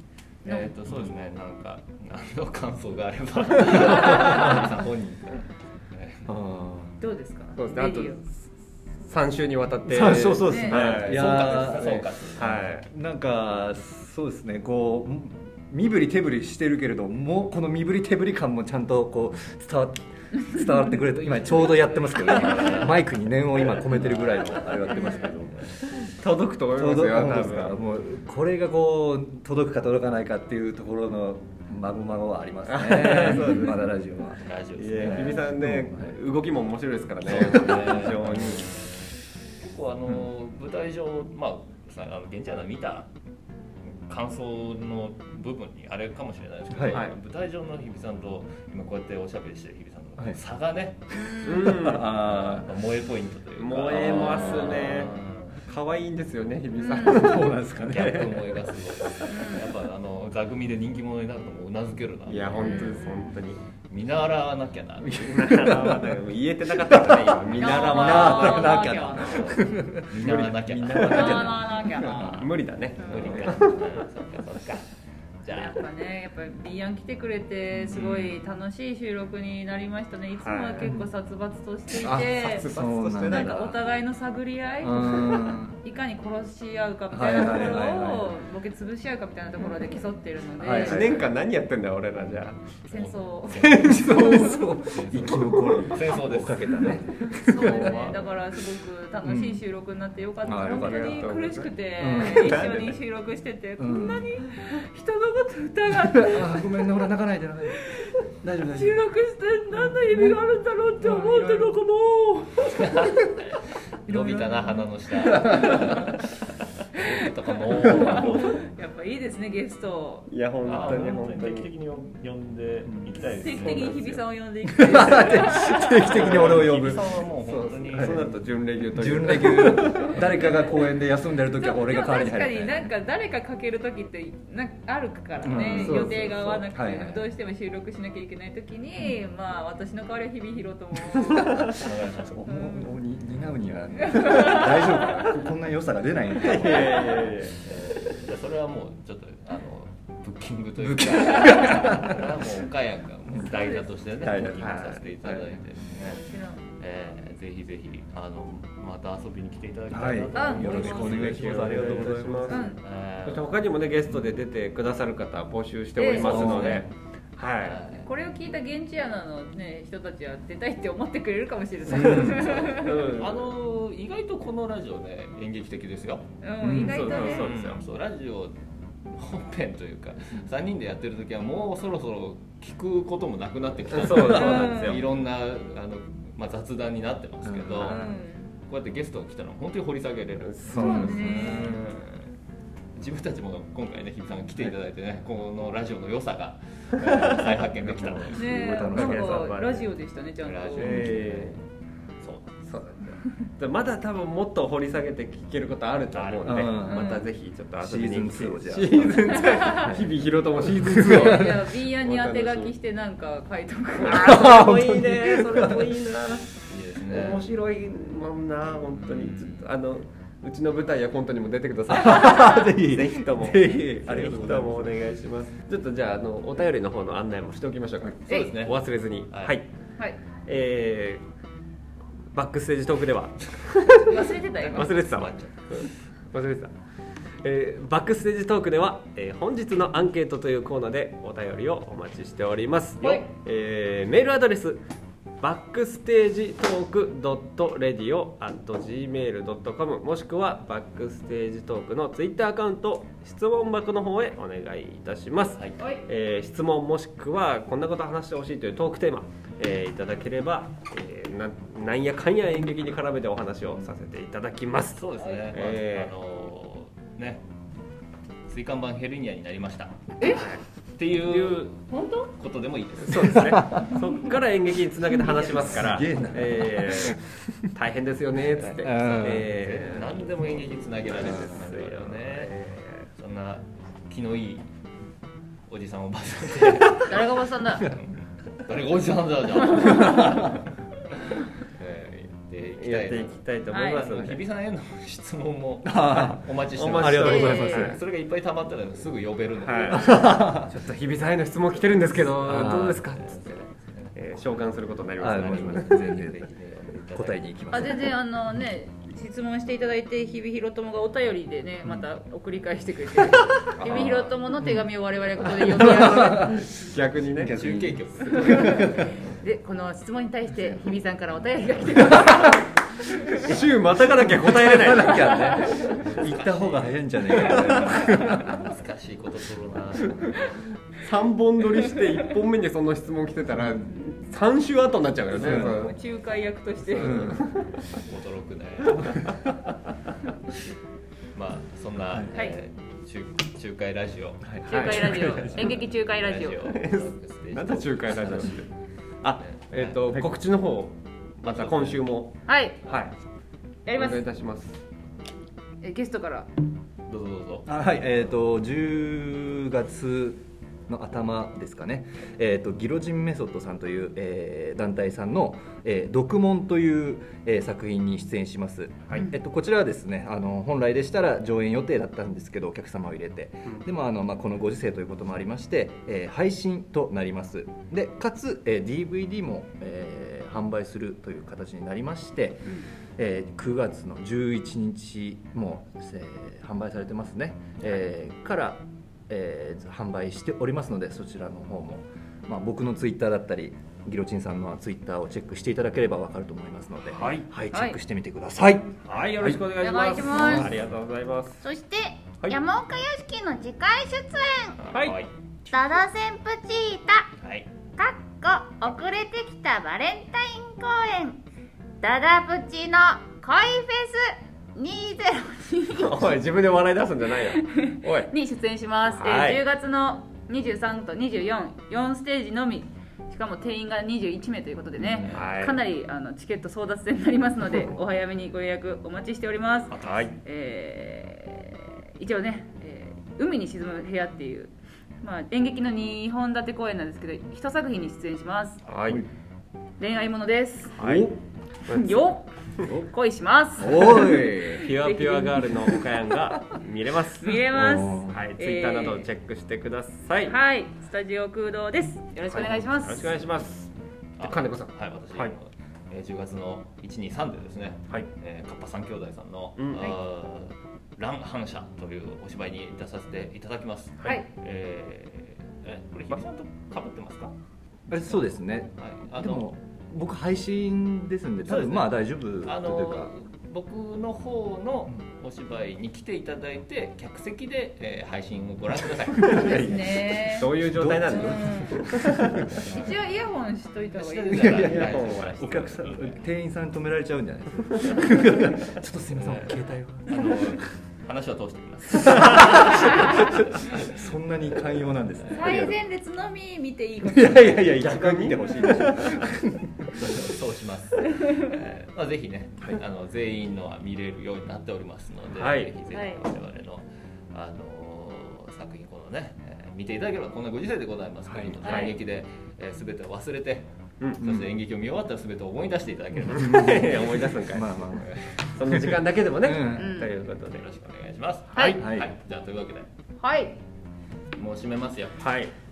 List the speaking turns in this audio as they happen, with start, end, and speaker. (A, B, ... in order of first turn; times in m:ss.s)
0:00.4-0:06.3 A
0:00.4-0:00.7 B
0:03.7-0:04.1 C
0:06.3-0:06.9 D
0:07.0-0:08.2 B
0:07.6-0:08.3 C
0:09.0-0:12.8 C
0:09.8-0:12.0 D
0:10.3-0:10.8 B
0:10.7-0:12.7 A
0:12.8-0:25.7 D
0:22.1-0:23.0 A
0:23.9-0:24.8 A
0:24.9-0:25.4 B
0:26.0-0:27.8 C
0:26.7-0:34.4 D
0:32.7-0:33.9 C
0:33.2-0:33.6 A
0:34.4-0:35.5 A
0:34.8-0:38.8 C
0:35.0-0:36.2 D
0:37.2-0:38.9 A
0:39.6-0:43.1 A
0:43.9-0:51.3 A
0:46.7-0:47.0 D
0:46.9-0:47.1 C
0:51.3-0:52.7 D
0:51.4-0:52.1 C
0:51.8-0:55.6 A
0:53.6-0:55.1 C
0:55.7-0:57.5 C
0:56.8-0:57.5 B
0:56.9-0:58.5 D
0:57.8-1:03.1 A
0:59.3-0:59.7 B
1:02.3-1:03.6 C
1:02.6-1:03.2 B
1:03.9-1:05.7 A
1:05.1-1:06.1 D
1:05.2-1:08.8 C
1:06.8-1:12.5 D
1:07.5-1:09.7 B
1:09.9-1:11.7 A
1:10.2-1:11.3 C
1:11.0-1:12.4 B
1:12.2-1:13.8 C
1:13.0-1:14.9 A
1:13.1-1:13.4 B
1:13.1-1:13.6 D
1:15.4-1:15.8 A
1:15.5-1:31.2 B
1:17.8-1:18.2 D
1:20.4-1:20.9 C
1:22.0-1:23.8 D
1:22.1-1:23.7 C
1:24.8-1:25.8 D
1:27.1-1:28.4 D
1:30.6-1:31.2 D
1:30.7-1:32.6 C
1:32.9-1:34.7 B
1:32.9-1:38.3 A
1:33.5-1:34.7 C
1:33.8-1:38.1 D
1:37.3-1:46.8 B
1:39.2-1:39.6 D
1:40.4-1:41.4 D
1:40.6-1:42.9 C
1:42.0-1:42.9 D
1:43.8-1:44.3 D
1:46.1-1:49.0 D
1:47.7-1:48.1 B
1:48.7-1:53.3 B
1:49.8-1:50.3 D
1:51.0-1:51.8 D
1:52.7-1:58.6 A
1:54.1-1:54.8 B
1:55.4-1:56.0 B
1:57.7-2:01.1 B
2:00.3-2:01.7 C
2:00.6-2:04.2 A
2:03.4-2:06.1 B
2:04.7-2:07.2 D
2:04.9-2:08.4 A
2:06.1-2:10.2 C
2:07.9-2:08.4 D
2:08.9-2:12.9 D
2:10.1-2:10.8 B
2:11.6-2:21.6 B
2:15.4-2:17.2 D
2:15.6-2:16.6 C
2:21.6-2:22.4 A
2:22.3-2:27.4 D
2:22.5-2:22.9 B
2:24.1-2:24.8 B
2:26.4-2:27.6 C
2:27.6-2:36.2 A
2:30.8-2:32.3 D
2:33.4-2:34.1 B
2:34.2-2:34.9 C
2:34.2-2:35.0 D
2:36.0-2:36.7 B
2:36.8-2:43.5 A
2:39.9-2:42.7 D
2:40.3-2:41.2 B
2:41.0-2:42.7 C
2:42.5-2:42.8 B
2:43.2-2:47.8 C
2:46.0-2:46.5 B
2:46.1-2:46.9 A
2:46.2-2:46.8 D
2:47.6-2:48.1 A
2:48.0-2:53.0 B
2:51.9-2:53.5 C
2:52.1-2:56.3 A
2:56.4-2:57.5 B
2:56.6-2:57.1 D
2:56.8-2:57.8 C
2:57.0-2:58.6 A
2:59.1-3:08.0 A
3:03.9-3:05.0 C
3:04.2-3:05.0 B
3:07.4-3:08.2 D
3:07.8-3:08.5 B
3:08.7-3:12.3 A
3:10.4-3:11.1 C
3:10.6-3:11.8 D
3:10.8-3:11.7 B
3:13.0-3:18.5 A
3:17.0-3:19.9 C
3:18.3-3:21.0 B
3:18.5-3:19.5 D
3:20.4-3:21.6 A
3:20.8-3:21.6 C
3:22.2-3:22.8 A
3:22.7-3:32.7 C
3:26.1-3:26.8 A
3:26.4-3:27.1 D
3:26.8-3:27.3 B
3:27.8-3:30.1 D
3:29.4-3:29.9 B
3:30.7-3:31.6 D
3:31.0-3:34.5 B
3:34.0-3:49.7 C
3:34.2-3:35.9 D
3:36.7-3:37.4 A
3:38.9-3:39.7 A
3:41.9-3:45.0 D
3:48.3-3:48.6 B
3:48.3-3:49.6 A
3:50.4-3:51.2 C
3:52.3-3:56.7 C
3:54.0-3:55.0 B
3:54.8-3:55.9 A
3:57.4-4:04.8 C
4:03.0-4:03.3 B
4:05.4-4:26.1 C
4:24.9-4:27.4 A
4:28.5-4:33.6 A
4:30.2-4:30.6 C
4:31.3-4:31.6 C
4:31.9-4:32.3 B
4:33.0-4:40.2 C
4:33.3-4:34.0 D
4:35.7-4:37.2 D
4:38.6-4:42.5 A
4:38.8-4:39.5 D
4:41.3-4:43.0 C
4:43.2-4:44.6 A
4:45.7-4:50.7 A
4:47.0-4:47.9 B
4:50.0-4:50.4 D
4:51.3-5:00.3 A
4:52.8-4:54.4 C
4:53.7-4:54.0 B
4:55.8-4:58.0 D
4:56.8-4:58.0 C
4:57.2-4:57.9 B
4:59.6-5:03.6 C
5:00.0-5:00.7 D
5:02.2-5:07.5 A
5:02.5-5:03.1 D
5:04.1-5:06.0 C
5:05.2-5:06.4 D
5:07.1-5:08.1 D
5:07.7-5:16.6 B
5:13.8-5:14.8 D
5:15.6-5:16.6 D
5:15.8-5:17.7 C
5:17.4-5:19.1 D
5:17.4-5:19.3 A
5:19.4-5:22.6 B
5:22.1-5:22.5 D
5:23.4-5:25.6 C
5:24.2-5:28.6 D
5:25.7-5:30.4 A
5:31.0-5:36.0 C
5:35.3-5:35.9 D
5:35.4-5:37.4 B
5:36.9-5:37.7 C
5:37.0-5:37.4 D
5:37.9-5:39.6 A
5:41.3-5:48.6 A
5:44.4-5:45.7 D
5:44.6-5:46.7 B
5:44.7-5:45.1 C
5:46.6-5:48.7 C
5:49.2-5:52.3 C
5:49.4-5:50.0 A
5:51.4-5:52.1 A
5:52.4-5:52.8 B
5:52.9-5:53.1 C
5:53.8-5:54.2 B
5:53.9-5:54.8 C
5:55.8-5:56.5 B
5:57.1-5:57.7 A
5:57.7-6:39.6 D
6:37.1-6:37.4 C
6:37.7-6:38.0 B
6:39.0-6:41.6 C
6:39.7-6:40.7 E
6:40.2-6:40.7 D
6:41.6-6:44.8 E
6:44.8-6:45.3 A
6:45.7-6:47.3 E
6:47.4-6:47.7 A
6:48.0-6:51.4 E
6:52.0-6:55.8 E
6:55.7-6:56.2 B
6:55.9-6:58.3 C
6:57.5-7:18.8 B
6:59.1-6:59.6 C
7:05.1-7:05.5 A
7:05.3-7:05.8 C
7:09.9-7:10.2 A
7:10.0-7:10.3 C
7:18.8-7:19.2 C
7:20.0-7:21.0 B
7:21.0-7:21.3 C
7:21.0-7:21.3 D
7:21.9-7:26.0 B
7:21.9-7:22.1 C
7:23.8-7:24.8 D
7:23.8-7:27.6 C
7:27.4-7:29.3 B
7:27.7-7:28.4 D
7:28.3-7:30.6 C
7:30.4-7:33.4 B
7:32.5-7:35.5 C
7:34.4-7:47.5 A
7:39.8-7:40.0 C
7:48.1-7:53.3 D
7:49.0-7:49.7 A
7:51.7-7:59.8 A
7:59.4-8:02.8 D
7:59.6-8:00.7 B
8:00.5-8:02.4 C
8:01.3-8:02.0 B
8:02.7-8:03.1 A
8:02.9-8:04.8 B
8:04.2-8:06.4 A
8:04.5-8:10.8 D
8:04.6-8:05.6 C
8:09.4-8:14.0 A
8:12.1-8:16.0 D
8:15.5-8:17.8 B
8:17.2-8:20.3 D
8:17.8-8:19.1 C
8:20.2-8:37.6 A
8:25.5-8:25.9 C
8:31.4-8:31.8 D
8:31.8-8:32.1 C
8:34.4-8:34.6 D
8:36.4-8:40.1 D
8:36.5-8:38.0 C
8:38.1-8:38.6 A
8:38.7-8:40.8 C
8:39.9-8:40.3 B
8:40.6-8:43.1 A
8:41.7-8:42.0 B
8:41.7-8:42.3 D
8:43.4-8:43.8 B
8:44.6-8:45.5 A
8:45.4-8:45.7 C